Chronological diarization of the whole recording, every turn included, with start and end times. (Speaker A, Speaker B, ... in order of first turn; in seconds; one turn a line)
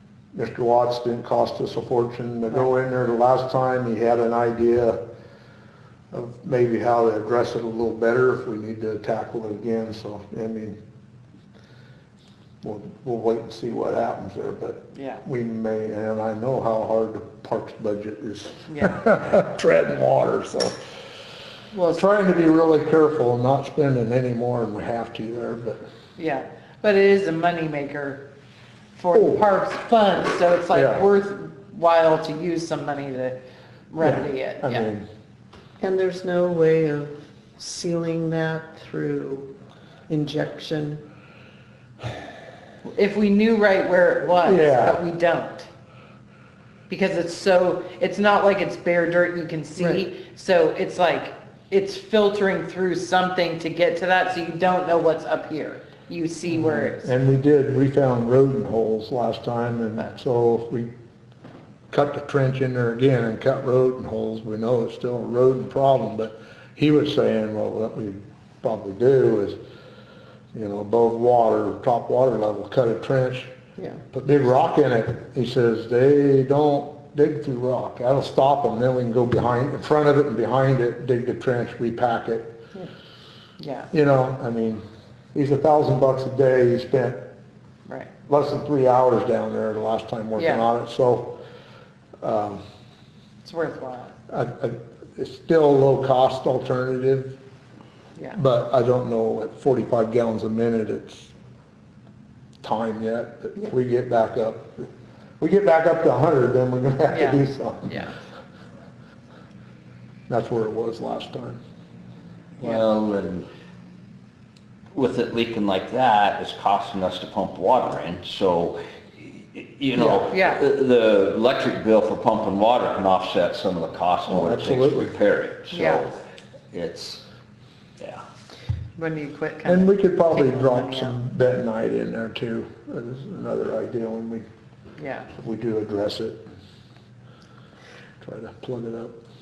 Speaker A: 0.3-5.0
Speaker A: 6.1-10.8
Speaker A: 12.6-20.8
Speaker B: 14.9-15.2
Speaker B: 18.7-19.0
Speaker B: 21.7-22.0
Speaker A: 21.9-25.8
Speaker B: 26.2-28.2
Speaker B: 29.0-34.9
Speaker A: 29.1-29.4
Speaker A: 30.7-31.1
Speaker A: 34.0-35.1
Speaker C: 35.8-39.5
Speaker C: 40.1-41.0
Speaker B: 42.8-45.7
Speaker A: 44.4-45.0
Speaker B: 46.9-57.1
Speaker A: 56.5-60.9
Speaker A: 61.9-69.6
Speaker A: 70.5-73.5
Speaker A: 74.1-82.6
Speaker B: 83.6-83.9
Speaker A: 83.9-87.3
Speaker A: 88.3-91.4
Speaker B: 90.3-90.7
Speaker A: 92.2-92.6
Speaker B: 93.4-94.1
Speaker A: 94.3-97.4
Speaker A: 98.3-101.3
Speaker A: 102.6-104.9
Speaker A: 105.4-108.1
Speaker B: 107.1-108.2
Speaker A: 110.3-111.6
Speaker D: 112.6-113.5
Speaker D: 114.9-126.2
Speaker B: 120.3-120.6
Speaker A: 124.3-125.1
Speaker B: 125.8-126.1
Speaker D: 126.7-127.2
Speaker B: 129.0-131.2
Speaker A: 129.6-134.4
Speaker B: 135.0-135.3
Speaker A: 135.4-136.4
Speaker A: 138.2-139.1